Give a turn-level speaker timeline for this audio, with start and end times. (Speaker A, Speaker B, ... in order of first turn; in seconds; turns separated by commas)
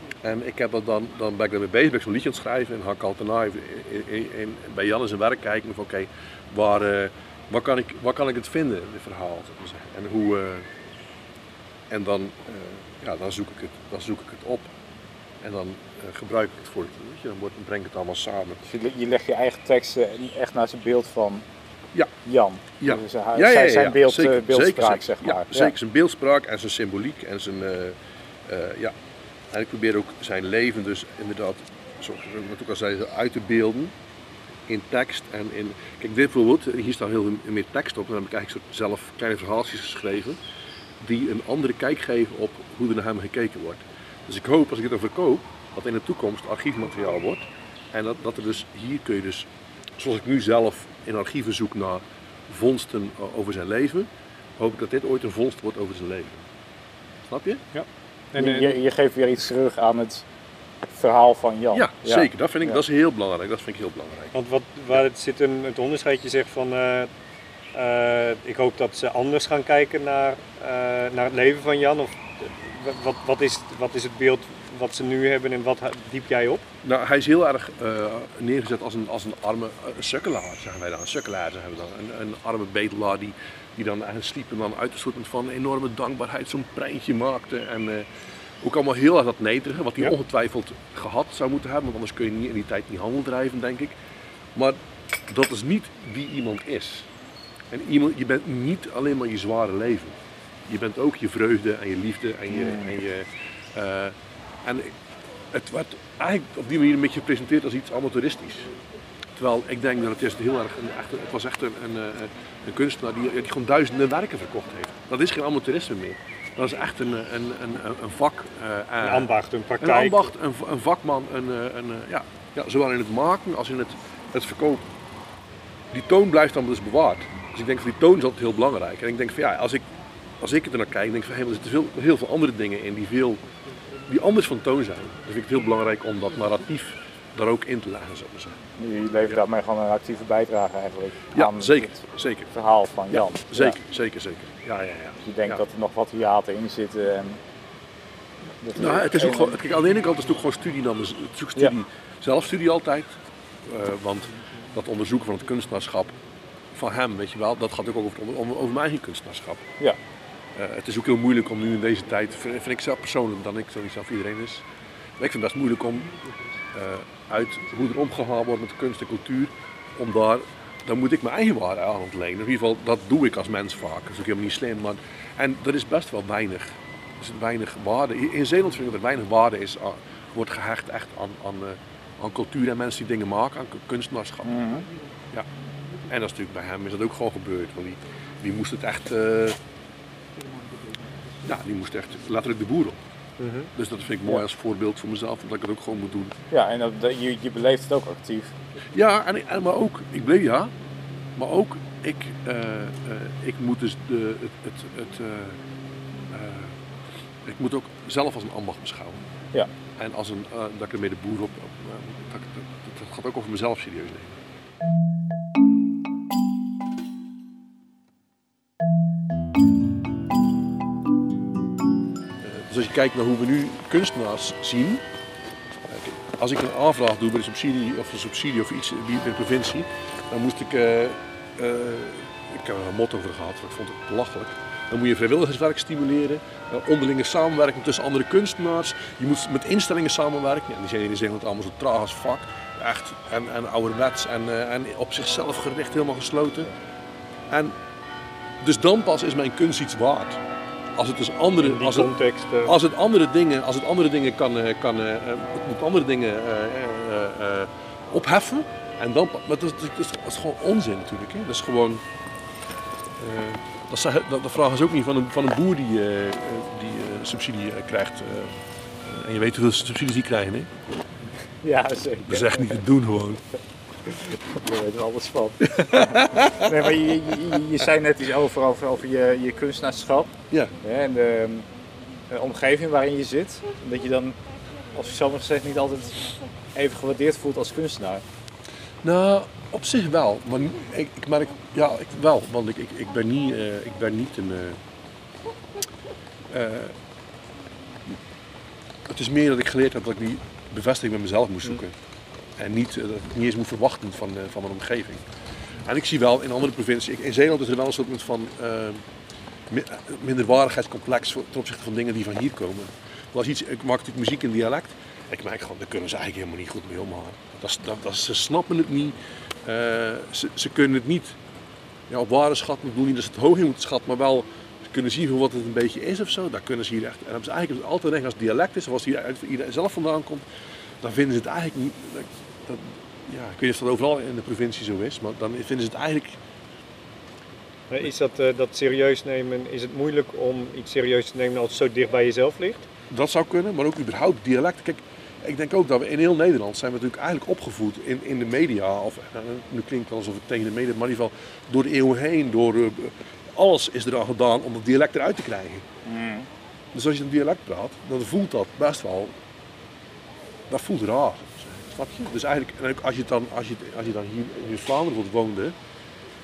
Speaker A: 0.2-10.7, Speaker A: 11.9-14.7, Speaker A: 15.4-18.6, Speaker B: 18.6-21.4, Speaker B: 22.2-25.7, Speaker A: 22.8-28.0, Speaker A: 28.5-28.9, Speaker A: 29.5-33.9, Speaker A: 34.7-40.4, Speaker A: 41.0-56.5, Speaker A: 57.2-57.6, Speaker C: 57.7-58.8, Speaker B: 58.4-60.2, Speaker B: 60.9-62.8, Speaker A: 61.7-64.3, Speaker C: 64.3-67.1, Speaker C: 67.7-76.6, Speaker A: 76.8-88.1, Speaker A: 88.6-94.0, Speaker A: 94.5-97.1, Speaker A: 97.7-100.2, Speaker A: 100.7-104.9, Speaker B: 102.5-102.9, Speaker A: 105.5-108.7, Speaker A: 109.4-124.9, Speaker C: 119.0-120.3, Speaker A: 125.9-129.9, Speaker A: 130.4-133.4, Speaker A: 134.1-138.6, Speaker B: 138.8-142.0, Speaker A: 141.3-142.5, Speaker B: 142.5-143.8, Speaker A: 143.1-145.6, Speaker B: 145.2-147.4, Speaker B: 148.6-149.6, Speaker A: 148.8-156.2, Speaker A: 156.7-159.7, Speaker A: 160.6-164.7, Speaker A: 165.2-166.1, Speaker A: 166.7-184.6, Speaker B: 184.4-184.8, Speaker A: 186.1-189.6, Speaker A: 191.4-193.0, Speaker C: 193.4-193.7, Speaker A: 193.8-196.3, Speaker B: 196.5-198.5, Speaker A: 198.9-200.7, Speaker A: 201.4-205.6, Speaker A: 206.3-206.8, Speaker A: 207.4-209.2, Speaker A: 210.0-214.4, Speaker A: 222.4-225.0, Speaker A: 225.9-246.7, Speaker A: 247.5-247.8, Speaker A: 248.6-250.4, Speaker A: 250.9-252.1, Speaker C: 251.6-252.8, Speaker A: 252.7-262.0, Speaker A: 263.2-270.7, Speaker B: 271.6-272.8, Speaker A: 272.3-273.4, Speaker B: 274.6-281.7, Speaker A: 275.8-276.9, Speaker B: 282.3-284.4, Speaker B: 284.9-288.2, Speaker A: 289.0-294.8, Speaker A: 296.5-296.9, Speaker A: 299.1-301.9, Speaker A: 302.6-305.2, Speaker A: 305.8-309.0, Speaker A: 309.7-321.4, Speaker A: 322.1-330.4, Speaker A: 331.0-336.4, Speaker C: 337.9-342.9, Speaker A: 343.1-355.9, Speaker B: 356.1-356.5, Speaker A: 356.9-359.3, Speaker A: 360.7-365.8